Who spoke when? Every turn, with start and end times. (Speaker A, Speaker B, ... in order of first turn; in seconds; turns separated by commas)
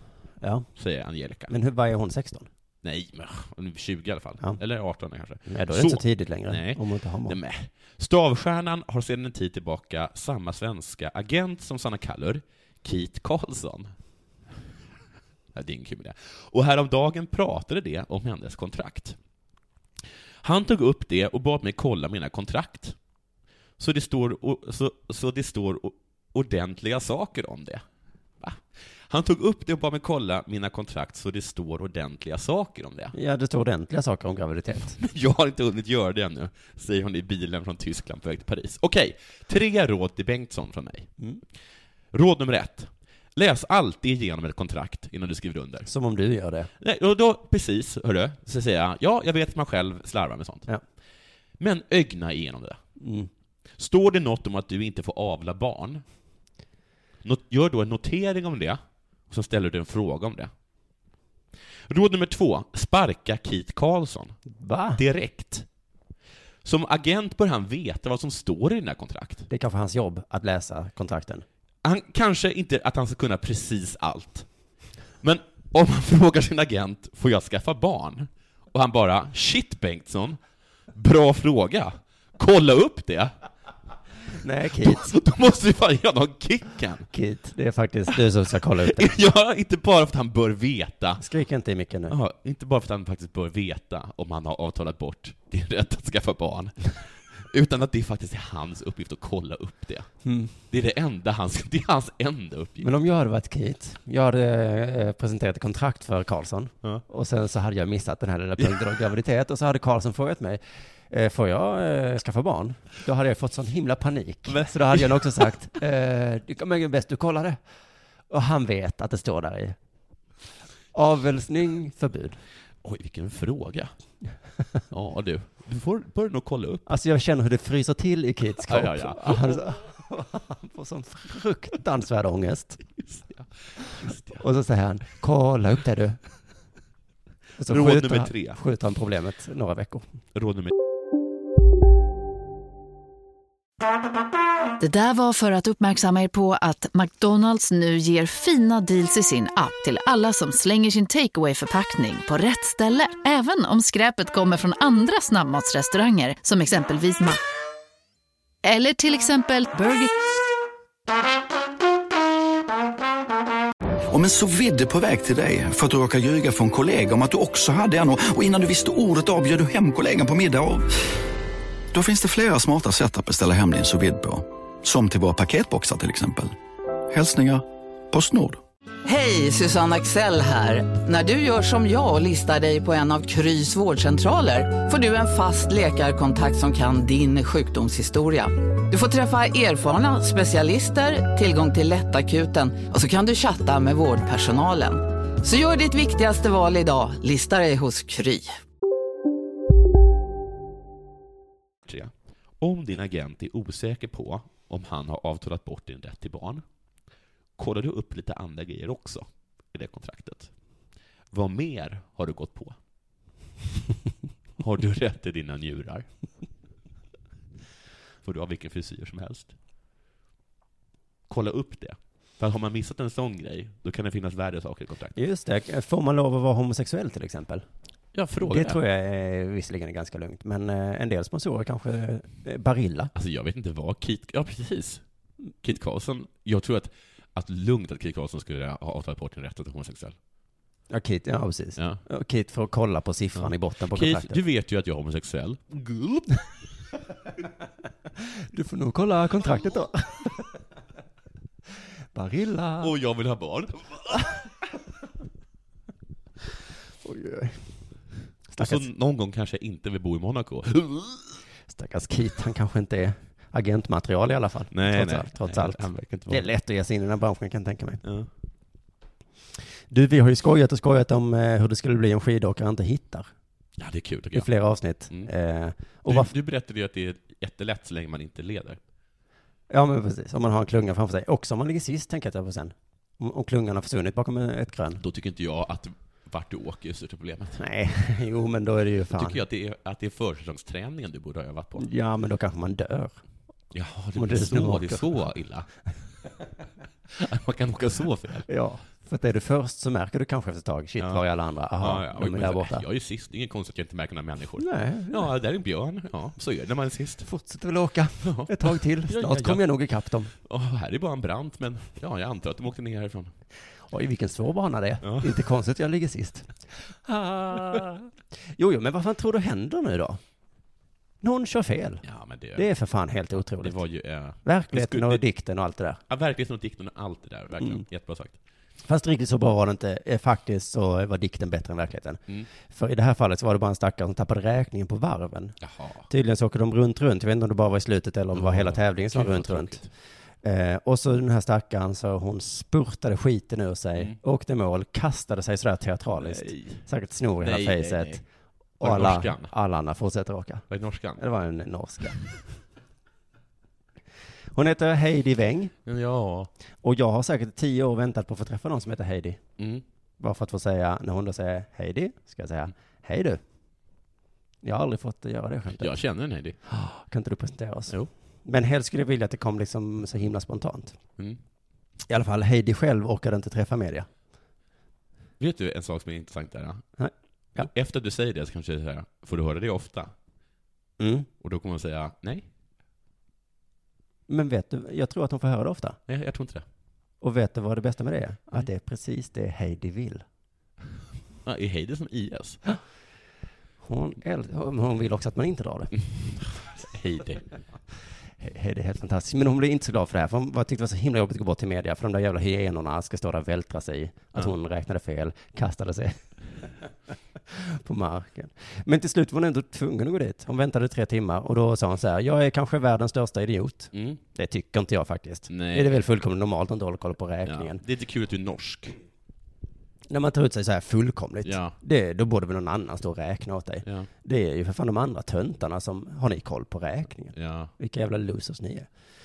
Speaker A: 0.4-0.7, Speaker B: 0.8-1.5, Speaker A: 1.5-2.5, Speaker B: 2.8-13.9, Speaker A: 5.5-7.4, Speaker B: 15.5-19.2, Speaker B: 20.4-23.0, Speaker B: 23.8-27.8, Speaker B: 28.4-33.1, Speaker A: 33.1-35.0, Speaker B: 35.0-41.1, Speaker B: 42.1-45.9, Speaker A: 45.9-46.7, Speaker B: 46.8-50.7, Speaker B: 51.6-52.8, Speaker A: 53.0-53.3, Speaker B: 53.8-56.0, Speaker B: 57.2-60.5, Speaker B: 61.9-64.4, Speaker A: 64.5-65.0, Speaker B: 65.0-65.7, Speaker B: 66.6-69.5, Speaker A: 69.5-71.4, Speaker B: 71.8-74.5, Speaker B: 75.2-80.4, Speaker B: 80.9-83.3, Speaker A: 84.4-85.1, Speaker B: 84.8-87.1, Speaker A: 87.1-89.2, Speaker B: 88.8-91.2, Speaker A: 91.2-92.2, Speaker B: 92.1-102.9, Speaker A: 100.2-100.5, Speaker A: 102.8-117.6, Speaker B: 114.5-115.4, Speaker A: 118.3-119.8, Speaker A: 120.9-122.4, Speaker B: 122.8-123.9, Speaker B: 124.9-126.9, Speaker A: 126.9-132.8, Speaker B: 128.6-129.6, Speaker B: 133.1-134.4, Speaker A: 134.3-136.2, Speaker A: 137.6-140.1, Speaker B: 137.7-138.6, Speaker B: 140.3-140.7, Speaker C: 144.8-157.4, Speaker C: 158.6-160.1, Speaker D: 164.1-170.9, Speaker D: 171.9-176.6, Speaker D: 177.1-178.6, Speaker E: 179.1-198.5, Speaker B: 201.9-206.6, Speaker B: 207.6-210.5, Speaker B: 211.3-212.8, Speaker B: 214.6-216.1, Speaker B: 218.2-219.6, Speaker B: 221.3-225.2, Speaker A: 225.2-227.6, Speaker B: 228.1-228.8, Speaker A: 228.4-233.1, Speaker B: 233.2-235.0, Speaker B: 235.6-240.2, Speaker A: 240.9-244.4, Speaker B: 243.4-246.3, Speaker A: 248.5-250.4, Speaker A: 252.1-252.9, Speaker B: 252.8-254.4, Speaker A: 257.0-257.8, Speaker A: 258.5-258.9, Speaker B: 258.6-261.3, Speaker A: 261.7-268.0, Speaker B: 264.7-266.5, Speaker B: 268.0-268.3, Speaker A: 269.9-273.3, Speaker B: 273.8-274.5, Speaker A: 274.3-276.3, Speaker B: 276.1-278.8, Speaker A: 279.7-285.0, Speaker B: 285.0-287.6, Speaker A: 287.6-289.4, Speaker B: 289.1-291.9, Speaker A: 291.8-293.2, Speaker B: 293.7-295.7, Speaker A: 294.2-295.2, Speaker B: 297.1-298.5, Speaker A: 298.5-302.9, Speaker B: 301.0-301.2, Speaker B: 301.8-307.3, Speaker A: 304.6-305.3, Speaker A: 307.2-310.3, Speaker B: 308.2-309.6, Speaker B: 310.4-313.3, Speaker A: 313.9-320.2, Speaker B: 315.0-315.3, Speaker A: 321.2-322.0, Speaker B: 322.0-322.7, Speaker A: 322.6-323.8, Speaker B: 323.4-325.2, Speaker A: 324.4-326.0, Speaker B: 326.1-328.4, Speaker A: 328.9-335.6, Speaker B: 335.6-336.1, Speaker A: 336.1-339.8, Speaker B: 338.3-339.9, Speaker A: 340.4-348.2, Speaker B: 346.1-346.8, Speaker B: 347.4-348.2, Speaker A: 348.8-350.6, Speaker B: 348.8-349.5, Speaker B: 350.7-351.2, Speaker A: 351.2-352.2, Speaker A: 354.5-355.7, Speaker B: 355.9-356.5, Speaker A: 356.8-359.4, Speaker B: 359.6-359.8, Speaker A: 360.2-363.4, Speaker A: 364.6-365.9, Speaker B: 365.8-366.6, Speaker A: 366.7-371.0, Speaker A: 372.1-374.1, Speaker B: 375.4-376.9, Speaker A: 377.0-377.7, Speaker B: 377.6-380.1, Speaker A: 381.0-381.3, Speaker B: 381.4-382.5, Speaker A: 384.3-386.0, Speaker B: 386.1-386.7, Speaker A: 387.2-390.2, Speaker B: 391.4-392.6, Speaker A: 393.8-395.9, Speaker B: 396.1-397.4, Speaker A: 398.4-406.2, Speaker A: 407.5-417.8, Speaker B: 413.9-414.2, Speaker B: 415.5-416.0, Speaker B: 417.4-419.0, Speaker A: 420.1-428.9, Speaker B: 421.4-421.8, Speaker B: 423.8-424.1, Speaker B: 427.4-427.7